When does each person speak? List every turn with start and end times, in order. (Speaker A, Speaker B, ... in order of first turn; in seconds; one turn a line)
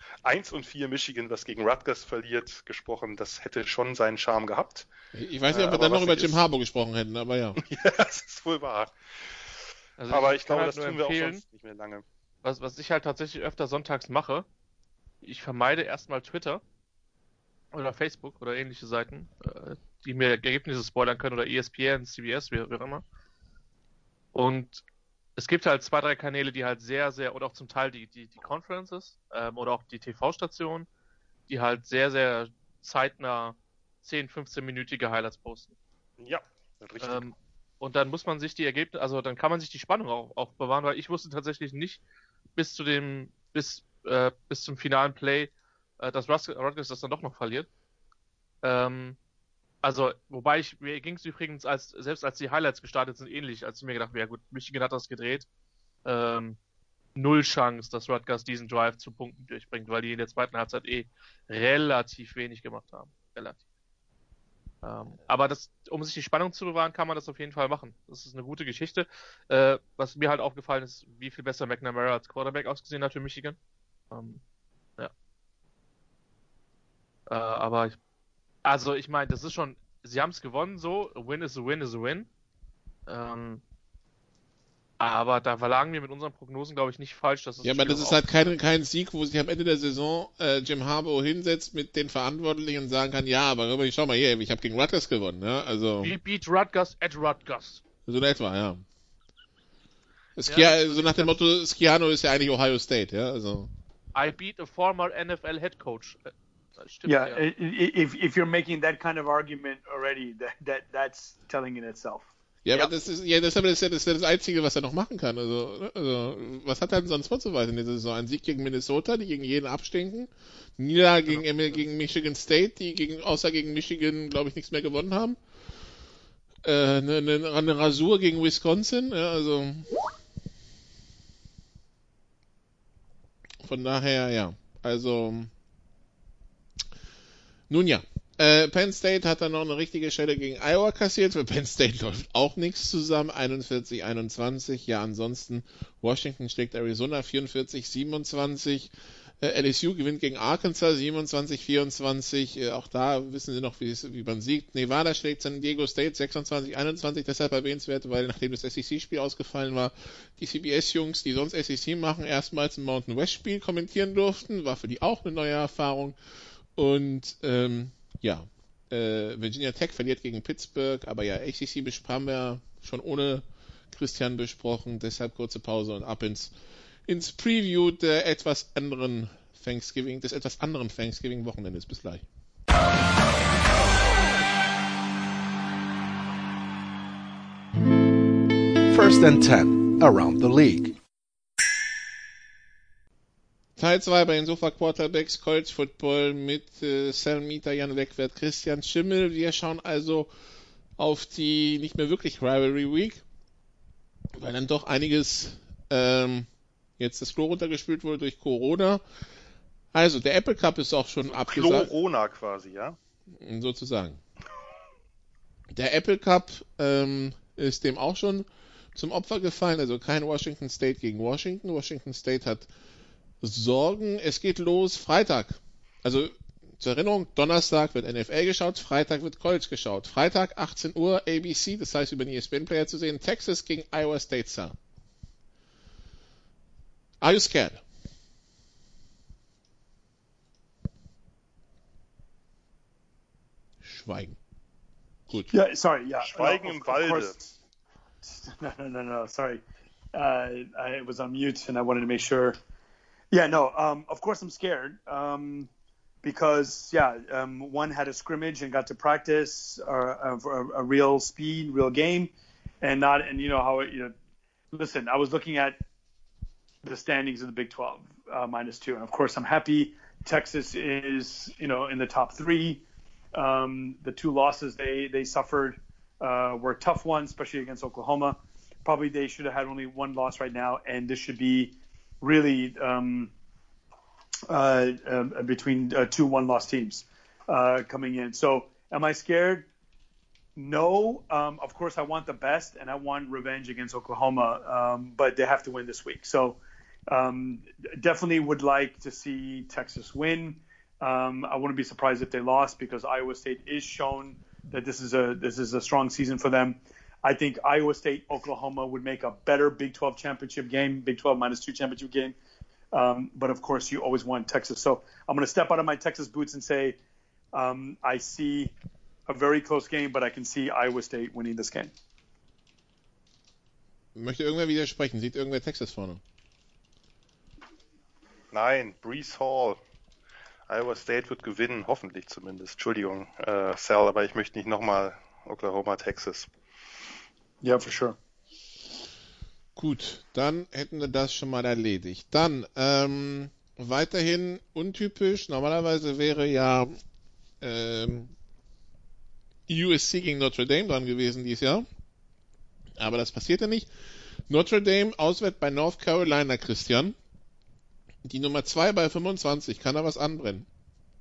Speaker A: 0.2-4.9
Speaker B: 5.1-7.6
Speaker A: 5.5-6.4
Speaker A: 7.6-8.9
Speaker C: 10.0-11.4
Speaker A: 10.1-12.0
Speaker C: 12.4-14.5
Speaker C: 15.2-16.6
Speaker C: 17.7-23.0
Speaker C: 24.3-24.8
Speaker C: 25.4-30.9
Speaker C: 31.5-35.7
Speaker A: 36.2-37.3
Speaker C: 37.0-42.0
Speaker C: 42.5-47.7
Speaker C: 48.6-49.2
Speaker C: 49.8-55.5
Speaker C: 56.0-56.6
Speaker C: 57.1-63.6
Speaker C: 64.8-73.6
Speaker C: 74.1-74.4
Speaker C: 77.3-78.0
Speaker C: 78.6-82.3
Speaker C: 83.1-83.6
Speaker C: 85.0-88.5
Speaker B: 87.6-96.1
Speaker C: 96.0-97.8
Speaker B: 98.1-98.8
Speaker B: 100.4-103.7
Speaker C: 100.5-101.3
Speaker C: 104.1-107.4
Speaker D: 107.0-112.3
Speaker B: 112.6-125.4
Speaker C: 121.3-121.7
Speaker B: 126.6-129.9
Speaker B: 133.6-135.5
Speaker B: 137.7-166.2
Speaker B: 166.8-176.5
Speaker B: 177.1-182.2
Speaker E: 188.9-191.0
Speaker B: 193.8-200.3
Speaker B: 201.0-203.2
Speaker B: 204.3-206.5
Speaker B: 207.0-209.0
Speaker B: 209.9-211.9
Speaker A: 211.2-212.9
Speaker B: 213.3-214.2
Speaker B: 215.7-222.7
Speaker B: 223.4-234.8
Speaker B: 237.2-237.8
Speaker B: 243.8-244.4
Speaker D: 245.5-247.5
Speaker A: 246.2-247.3
Speaker D: 248.2-249.6
Speaker D: 250.1-252.6
Speaker D: 253.3-255.7
Speaker D: 256.2-264.1
Speaker D: 264.7-265.8
Speaker D: 266.8-272.8
Speaker D: 273.3-283.3
Speaker D: 284.5-289.7
Speaker D: 290.6-312.3
Speaker D: 312.9-317.0
Speaker D: 317.5-318.7
Speaker D: 319.3-321.9
Speaker B: 324.1-326.2
Speaker A: 328.5-329.8
Speaker A: 330.7-336.5
Speaker D: 337.6-338.2
Speaker B: 339.8-346.9
Speaker B: 347.6-348.3
Speaker B: 349.7-351.9
Speaker B: 353.0-353.9
Speaker B: 354.5-357.1
Speaker B: 358.2-360.7